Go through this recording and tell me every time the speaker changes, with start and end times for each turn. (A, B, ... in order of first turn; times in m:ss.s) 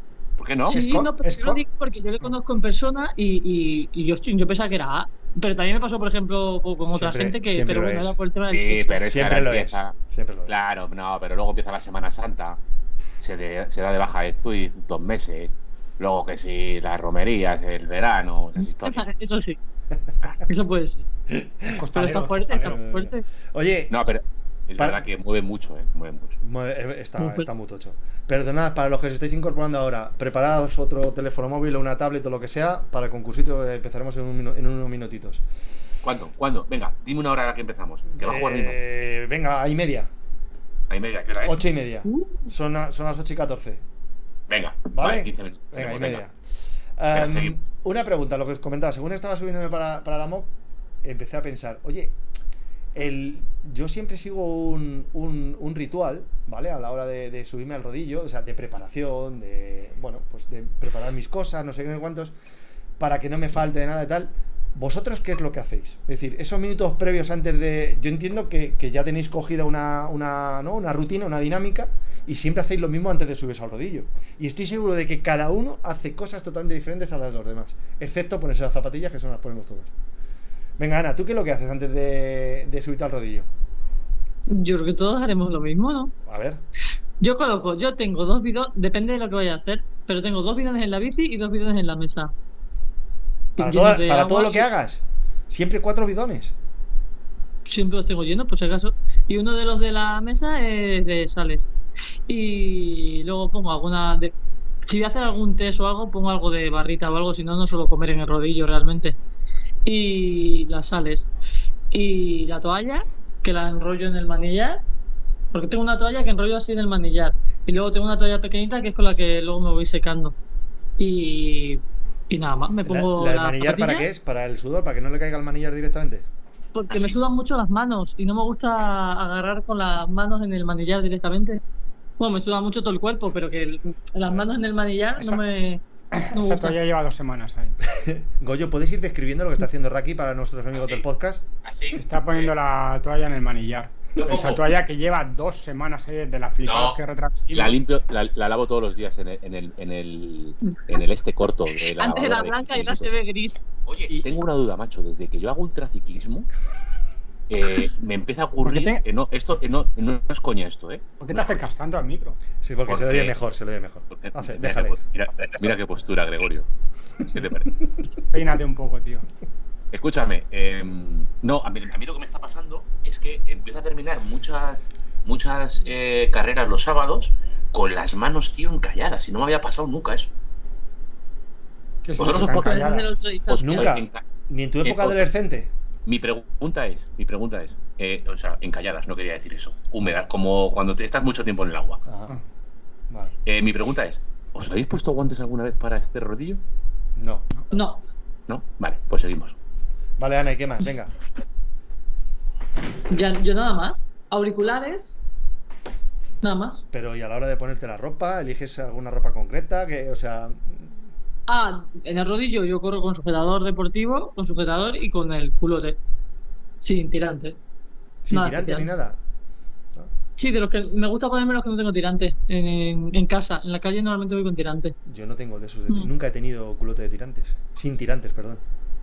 0:00.4-0:00.8 A
0:00.7-0:01.6 B
0:00.7-0:09.0 C
0:06.8-0:08.2 D
0:08.5-0:09.9 A
0:09.0-0:10.6 D
0:10.5-0:12.6 A
0:13.2-0:19.0 A
0:18.6-0:19.6 C
0:20.4-0:21.1 C
0:21.3-0:21.9 D
0:21.7-0:22.7 B
0:21.9-0:23.2 C
0:22.6-0:23.9 D
0:23.9-0:26.4 A
0:24.8-0:25.0 D
0:26.4-0:35.4 D
0:27.2-0:27.5 C
0:36.0-0:38.8 A
0:38.2-0:40.1 D
0:40.9-0:41.7 A
0:41.4-0:43.8 D
0:42.0-0:42.5 C
0:44.5-0:46.2 A
0:44.9-0:46.3 D
0:47.0-0:50.5 D
0:47.1-0:47.5 A
0:51.0-0:52.1 D
0:52.9-1:02.3 D
1:03.0-1:19.9 D
1:20.8-1:23.5 D
1:24.5-1:26.1 C
1:26.2-1:26.6 D
1:27.2-1:32.3 C
1:33.6-1:34.7 C
1:33.6-1:36.5 D
1:37.6-1:41.7 C
1:42.3-1:44.3 C
1:44.9-1:49.2 C
1:49.8-1:51.3 C
1:51.9-1:54.8 C
1:55.5-2:00.3 C
2:01.0-2:04.1 C
2:02.8-2:06.2 D
2:06.7-2:11.6 C
2:06.9-2:07.2 A
2:12.2-2:16.8 C
2:16.1-2:17.8 B
2:17.8-2:21.5 D
2:20.7-2:21.0 A
2:21.6-2:22.5 A
2:22.0-2:27.8 B
2:24.2-2:24.7 A
2:26.6-2:27.0 A
2:27.5-2:33.2 A
2:31.9-2:33.6 C
2:33.8-2:36.5 A
2:37.5-2:41.6 A
2:38.6-2:39.0 B
2:41.2-2:42.4 B
2:42.6-2:45.0 D
2:42.9-2:43.3 A
2:44.1-2:46.7 A
2:47.3-2:47.7 A
2:48.3-2:49.3 B
2:49.9-3:00.3 A
3:02.0-3:03.1 B
3:02.2-3:02.8 A
3:02.5-3:04.0 C
3:03.5-3:04.2 A
3:03.6-3:05.7 D
3:04.8-3:05.3 A
3:06.0-3:12.0 A
3:12.0-3:12.4 D
3:13.1-3:13.3 D
3:13.4-3:16.6 A
3:17.2-3:17.5 D
3:17.7-3:18.0 C
3:18.5-3:19.6 A
3:20.2-3:21.1 D
3:23.1-3:25.2 C
3:26.4-3:26.8 C
3:26.9-3:31.0 D
3:31.5-3:36.0 C
3:36.8-3:37.6 C
3:38.2-3:39.2 D
3:38.3-3:38.9 C
3:40.4-3:44.9 C
3:45.0-3:48.6 D